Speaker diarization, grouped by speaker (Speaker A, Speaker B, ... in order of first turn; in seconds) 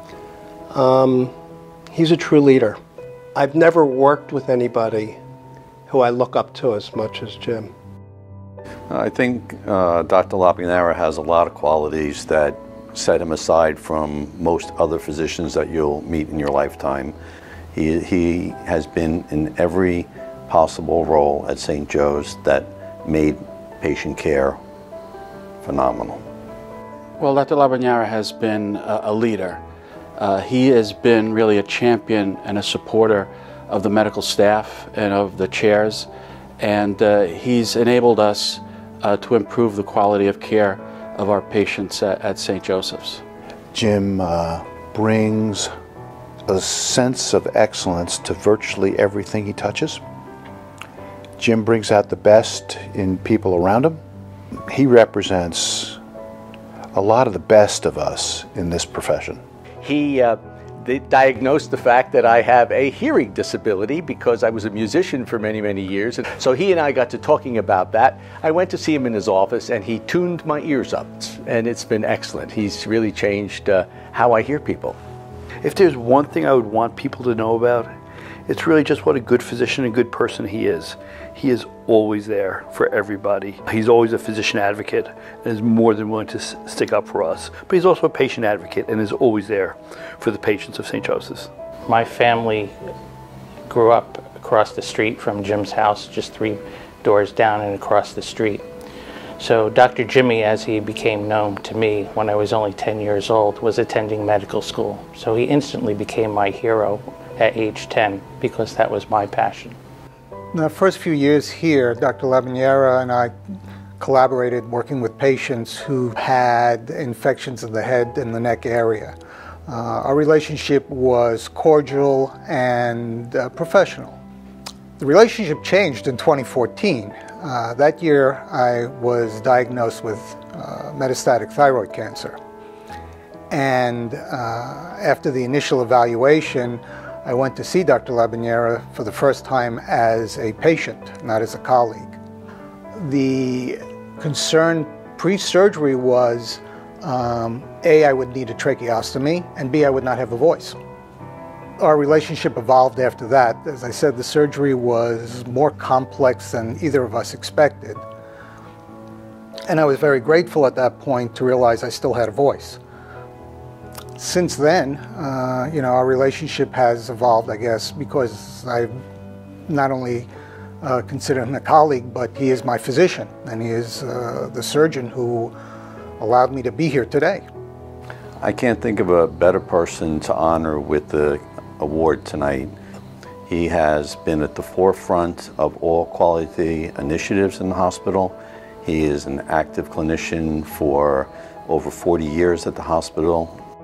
Speaker A: 0.7-1.3, 1.9-2.8, 3.3-5.2, 5.9-7.7
Speaker B: 8.9-17.1, 17.7-24.6, 25.6-26.2, 178.4-182.7, 183.5-193.6
Speaker C: 27.2-29.6, 30.2-36.1, 36.6-43.2
Speaker D: 43.8-45.7, 46.5-50.0, 51.4-54.0, 54.7-56.0, 56.9-59.4
Speaker E: 59.8-75.0
Speaker F: 75.6-77.9, 78.5-91.5
Speaker G: 91.8-92.7, 93.7-98.6, 99.4-109.8
Speaker H: 110.5-113.3, 114.0-119.1, 119.7-124.2, 125.0-132.4, 133.5-142.2, 142.9-150.8, 151.8-158.0, 159.7-162.8, 164.2-168.9, 169.7-170.3, 170.8-175.5, 176.2-177.4